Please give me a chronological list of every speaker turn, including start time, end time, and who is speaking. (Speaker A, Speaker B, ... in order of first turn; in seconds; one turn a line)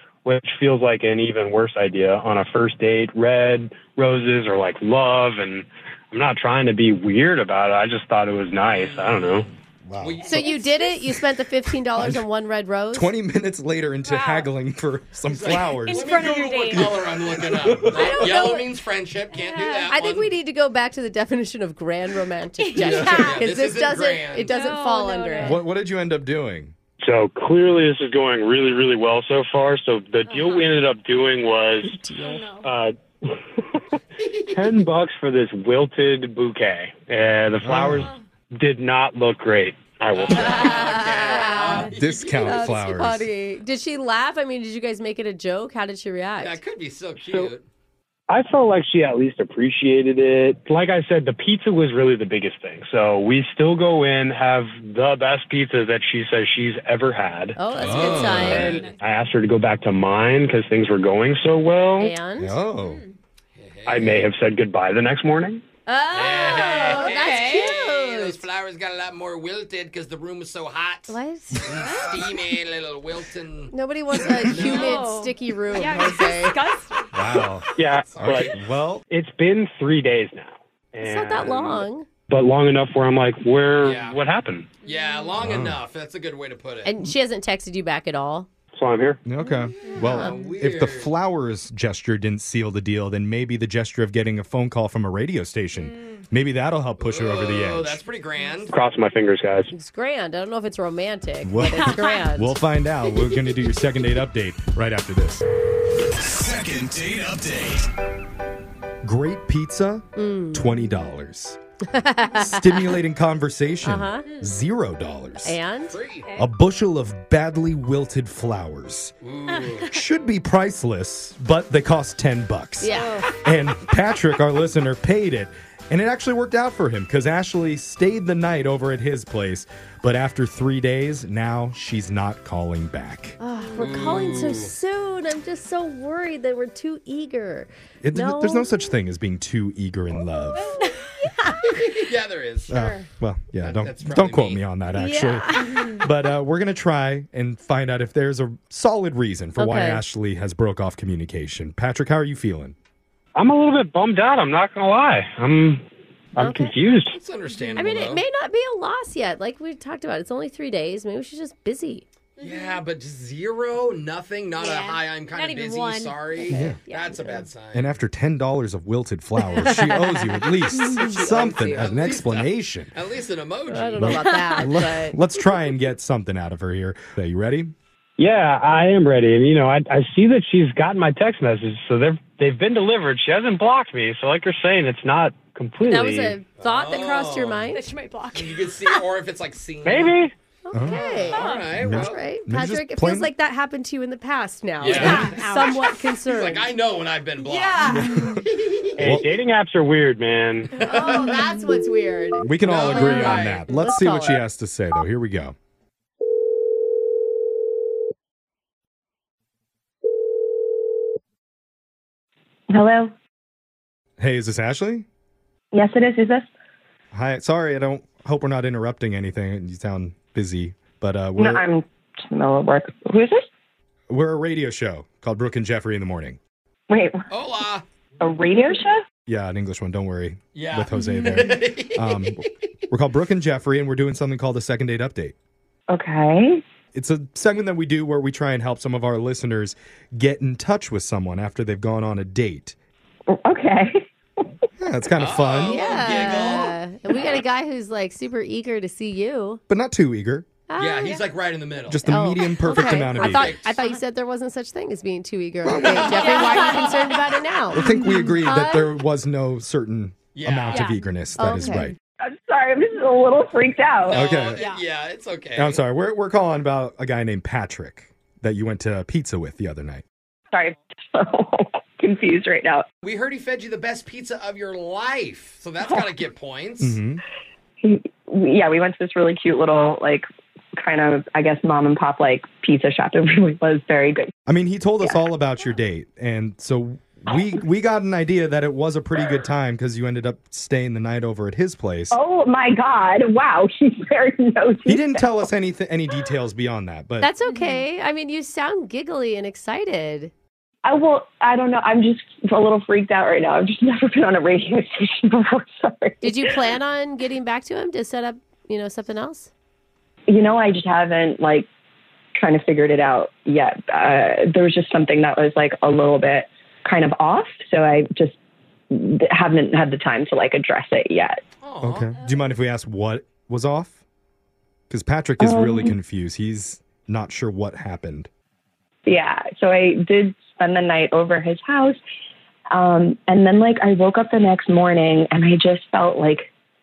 Speaker A: 0.2-9.5
Speaker B: 8.6-10.9
Speaker C: 9.9-10.3
Speaker D: 10.2-13.1
Speaker C: 12.0-12.2
Speaker C: 12.9-18.3
Speaker E: 14.0-14.5
Speaker B: 15.3-20.4
Speaker E: 15.8-17.0
Speaker E: 18.0-18.4
Speaker D: 18.0-18.7
Speaker E: 19.3-19.9
Speaker D: 19.8-25.6
Speaker E: 22.6-23.5
Speaker B: 22.8-24.5
Speaker E: 24.4-25.6
Speaker C: 25.4-26.7
Speaker A: 27.0-32.0
Speaker E: 30.3-30.7
Speaker D: 31.8-32.5
Speaker E: 32.2-32.7
Speaker A: 32.6-33.8
Speaker A: 34.5-40.9
Speaker C: 37.6-38.1
Speaker B: 40.1-42.7
Speaker D: 40.3-46.6
Speaker E: 40.9-41.9
Speaker C: 41.8-43.3
Speaker B: 46.4-47.6
Speaker A: 47.2-47.5
Speaker A: 48.3-62.1
Speaker D: 57.6-58.9
Speaker C: 57.7-58.8
Speaker E: 57.8-59.0
Speaker B: 58.5-58.9
Speaker D: 62.0-62.6
Speaker C: 62.4-63.0
Speaker E: 62.8-63.1
Speaker B: 63.5-64.3
Speaker A: 63.9-65.6
Speaker D: 65.9-68.5
Speaker B: 66.1-73.7
Speaker E: 66.6-67.6
Speaker D: 71.1-71.8
Speaker E: 71.8-72.3
Speaker D: 73.7-76.6
Speaker B: 74.5-75.1
Speaker E: 74.7-77.5
Speaker C: 77.1-79.0
Speaker A: 77.8-78.6
Speaker B: 78.2-78.6
Speaker A: 79.1-84.7
Speaker D: 81.0-82.1
Speaker B: 83.8-84.2
Speaker B: 84.8-87.0
Speaker E: 84.8-85.5
Speaker C: 85.4-85.8
Speaker D: 86.8-88.5
Speaker A: 88.7-89.2
Speaker C: 89.3-98.0
Speaker E: 89.4-90.5
Speaker D: 90.0-90.3
Speaker B: 90.1-91.1
Speaker E: 95.7-96.2
Speaker B: 97.0-98.8
Speaker A: 98.7-99.7
Speaker D: 99.7-102.6
Speaker C: 101.4-105.5
Speaker E: 101.8-102.2
Speaker C: 106.2-107.8
Speaker C: 109.0-111.6
Speaker D: 110.2-110.9
Speaker D: 111.9-112.8
Speaker C: 112.3-115.6
Speaker D: 113.8-114.3
Speaker E: 114.2-114.5
Speaker D: 115.4-116.0
Speaker B: 115.9-116.3
Speaker E: 116.2-116.5
Speaker C: 116.3-119.2
Speaker B: 119.2-120.0
Speaker C: 119.8-133.4
Speaker D: 122.8-123.2
Speaker E: 122.8-123.3
Speaker D: 133.4-138.7
Speaker E: 133.6-133.9
Speaker B: 133.8-134.8
Speaker C: 138.0-140.8
Speaker E: 140.5-141.4
Speaker D: 140.8-141.8
Speaker B: 141.7-142.8
Speaker C: 142.7-152.8
Speaker E: 142.7-143.1
Speaker B: 143.6-144.7
Speaker D: 144.9-145.8
Speaker E: 145.6-146.0
Speaker D: 149.6-150.0
Speaker A: 153.3-157.2
Speaker D: 156.4-156.8
Speaker B: 157.1-158.2
Speaker E: 157.5-158.0
Speaker D: 157.8-162.1
Speaker E: 162.4-162.8
Speaker B: 162.4-167.9
Speaker E: 164.6-167.2
Speaker C: 166.5-166.8
Speaker D: 167.2-167.4
Speaker C: 167.7-172.9
Speaker D: 169.4-171.9
Speaker B: 171.4-174.2
Speaker D: 173.7-175.2
Speaker C: 173.9-177.7
Speaker E: 174.2-174.5
Speaker A: 178.2-186.4
Speaker D: 185.8-187.9
Speaker B: 186.6-187.7
Speaker E: 187.7-189.1
Speaker B: 188.3-190.2
Speaker A: 189.8-190.3
Speaker D: 190.7-196.7
Speaker C: 190.7-191.0
Speaker E: 190.8-191.7
Speaker B: 191.2-192.2
Speaker C: 191.7-193.3
Speaker B: 194.8-199.2
Speaker E: 194.9-195.8
Speaker C: 195.0-195.3
Speaker E: 197.4-198.4
Speaker C: 197.8-198.4
Speaker A: 199.0-200.7
Speaker C: 199.0-199.3
Speaker B: 200.8-201.4
Speaker D: 200.8-204.4
Speaker C: 202.4-205.6
Speaker B: 202.7-203.7
Speaker F: 212.7-213.1
Speaker C: 214.2-215.1
Speaker F: 215.7-216.5
Speaker C: 217.1-221.6
Speaker F: 221.4-223.4
Speaker C: 224.1-226.4
Speaker F: 226.9-227.3
Speaker B: 227.3-227.8
Speaker F: 228.2-229.0
Speaker C: 229.3-235.3
Speaker B: 230.5-232.6
Speaker F: 235.9-236.6
Speaker C: 236.9-242.8
Speaker F: 243.3-244.4
Speaker C: 244.8-246.1
Speaker B: 245.2-247.4
Speaker D: 245.7-249.6
Speaker C: 249.7-250.5
Speaker D: 250.7-251.2
Speaker B: 250.8-253.9
Speaker C: 251.9-253.6
Speaker D: 252.1-259.0
Speaker C: 255.6-256.9
Speaker B: 256.0-256.3
Speaker E: 256.2-256.9
Speaker C: 257.7-262.0
Speaker B: 260.3-261.0
Speaker E: 260.7-261.1
Speaker D: 261.4-261.9
Speaker F: 262.2-264.3
Speaker B: 264.1-265.8
Speaker C: 264.1-264.6
Speaker E: 264.5-264.8
Speaker C: 265.6-270.0
Speaker F: 270.5-272.9
Speaker B: 273.0-277.0
Speaker C: 276.8-277.2
Speaker F: 277.8-280.3
Speaker F: 280.8-284.3
Speaker C: 284.5-292.2
Speaker F: 292.1-295.4
Speaker C: 294.9-297.3
Speaker D: 297.2-300.3
Speaker E: 297.5-297.8
Speaker F: 300.8-306.5
Speaker D: 306.2-309.5
Speaker F: 310.3-311.7
Speaker F: 312.4-318.4
Speaker F: 318.9-321.4
Speaker B: 321.6-322.1
Speaker C: 321.8-324.0
Speaker C: 324.9-328.3
Speaker F: 325.4-326.0
Speaker F: 329.1-332.0
Speaker F: 332.7-336.5